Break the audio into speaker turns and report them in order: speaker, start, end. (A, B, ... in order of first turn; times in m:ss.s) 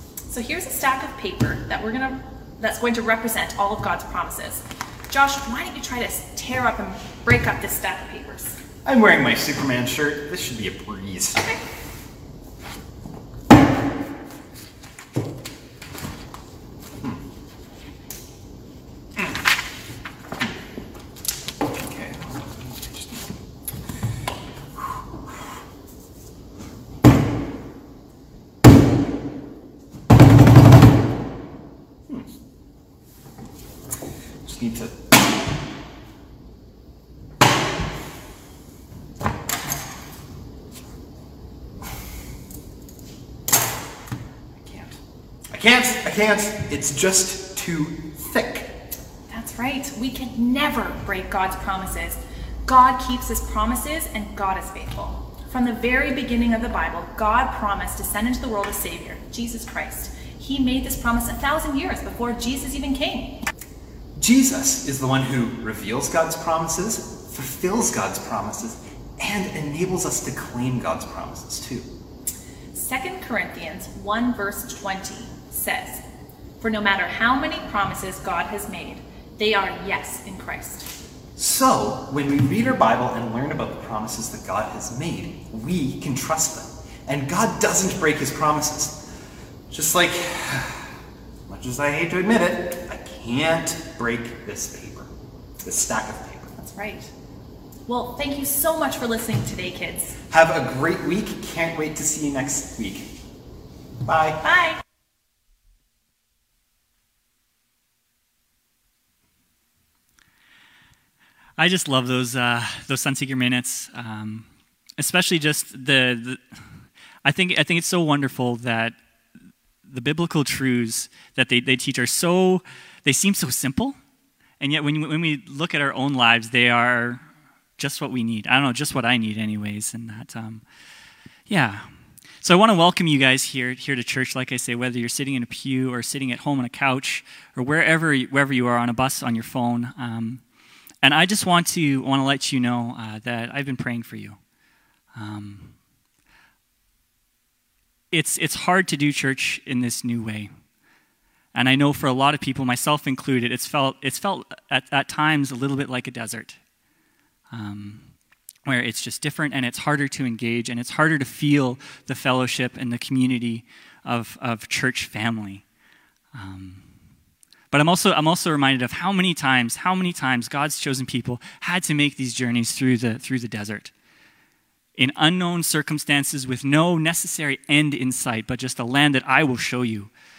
0:00.3-0:08.6 A
0:08.8-0:11.5 B
0:21.8-0:23.3 B
0:24.8-0:25.4 B
0:34.4-0:35.1 B
0:44.6-0:45.0 B
0:45.5-0:48.8 B
0:49.3-1:03.4 A
1:04.2-1:11.9 B
1:12.7-1:16.0 A
1:16.6-1:20.9 A
1:21.4-1:29.0 B
1:29.7-1:30.9 B
1:31.5-1:36.5 B
1:36.6-1:37.1 A
1:37.9-1:40.2 A
1:40.3-1:43.1 B
1:44.0-1:44.4 B
1:44.4-1:44.8 A
1:51.6-1:54.5 C
1:55.0-1:56.4 C
1:57.2-1:59.0 C
1:59.8-2:04.0 C
2:04.6-2:07.2 C
2:07.8-2:10.6 C
2:11.5-2:11.9 C
2:12.4-2:20.4 C
2:21.0-2:24.4 C
2:25.1-2:25.7 C
2:28.1-2:30.5 C
2:31.5-2:36.6 C
2:37.5-2:38.1 C
2:38.6-2:45.6 C
2:46.3-2:46.8 C
2:47.7-2:53.9 C
2:55.0-3:00.1 C